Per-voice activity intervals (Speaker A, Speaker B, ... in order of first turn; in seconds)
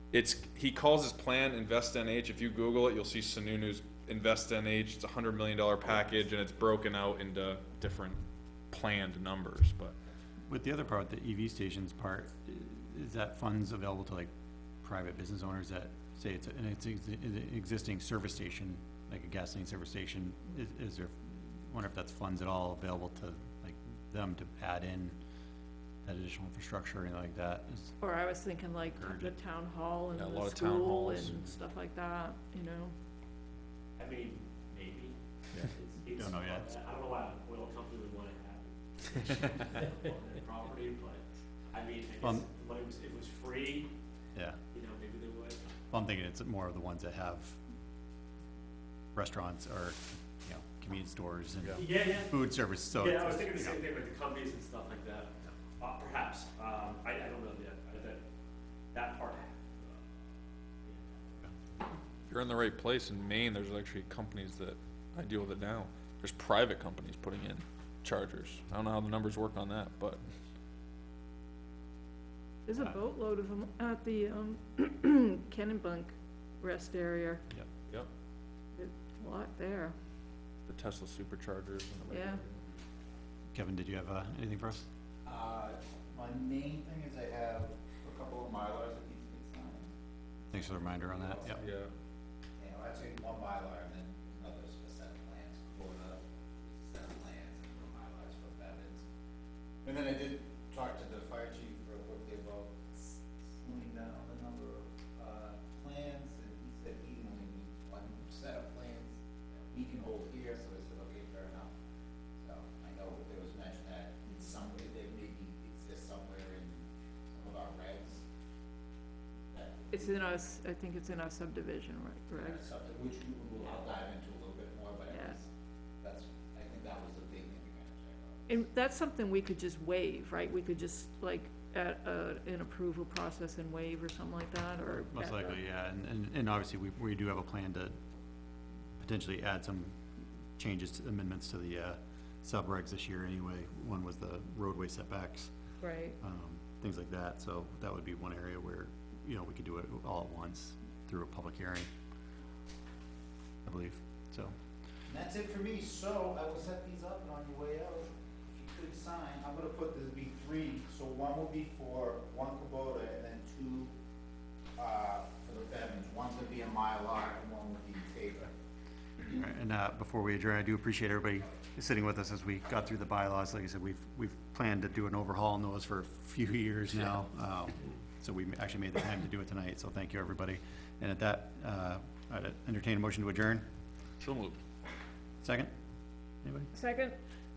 Speaker A: 0.1-10.0, 30.1-31.6, 62.3-70.2, 80.7-82.6, 91.5-91.9, 184.2-184.6
Speaker B: 10.5-14.3, 14.8-25.2, 26.0-28.0, 28.8-29.4, 36.1-36.7, 42.2-42.5, 44.3-44.6, 45.9-47.6, 49.1-53.8, 83.5-84.9, 90.5-91.6, 135.1-138.0, 139.0-140.0, 140.6-145.5, 146.2-151.9, 153.6-154.6, 169.2-183.7, 185.4-185.7, 186.4-186.7
Speaker C: 28.0-33.0, 72.7-77.4, 78.7-80.0, 82.1-82.4, 119.9-122.7, 125.1-125.4, 128.5-135.5, 145.8-146.2, 186.7-187.2
Speaker D: 34.0-35.2, 35.7-43.9, 44.7-45.6, 51.8-52.4, 53.0-58.2, 58.9-60.0
Speaker E: 85.2-89.9, 91.1-91.6, 92.6-99.0, 99.8-111.7, 112.4-118.2, 119.5-120.5, 122.3-125.5, 126.0-128.6, 155.1-163.9, 164.8-168.5